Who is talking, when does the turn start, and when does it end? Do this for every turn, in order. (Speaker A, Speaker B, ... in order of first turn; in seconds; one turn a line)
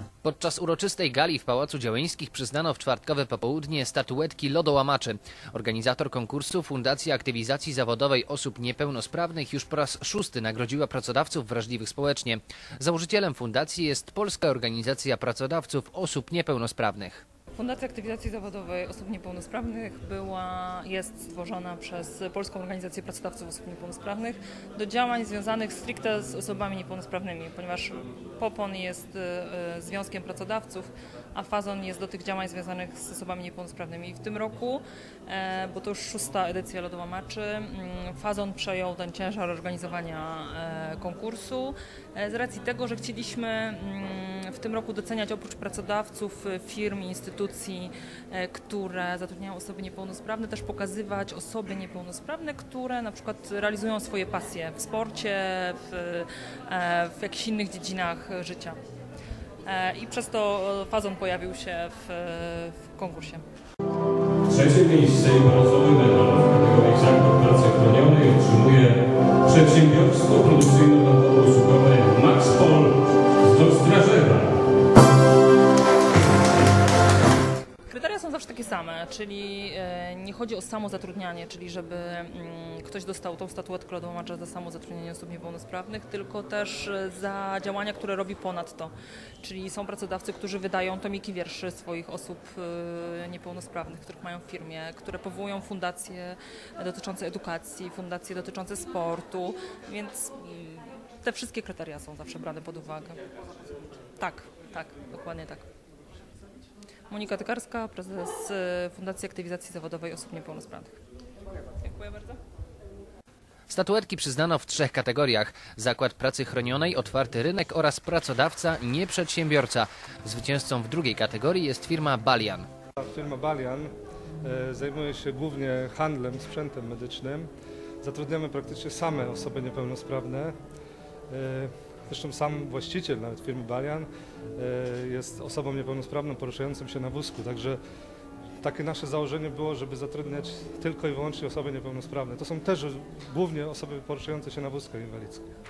Speaker A: 0.2-17.2
Speaker B: 17.6-58.8
Speaker B: 59.6-63.4
Speaker C: 64.5-74.6
Speaker B: 77.9-103.2
Speaker B: 104.2-105.7
Speaker B: 107.1-110.9
Speaker B: 111.8-112.4
Speaker A: 113.7-122.7
Speaker D: 123.0-127.5
Speaker D: 128.0-130.6
Speaker D: 131.3-137.8
Speaker D: 138.6-145.5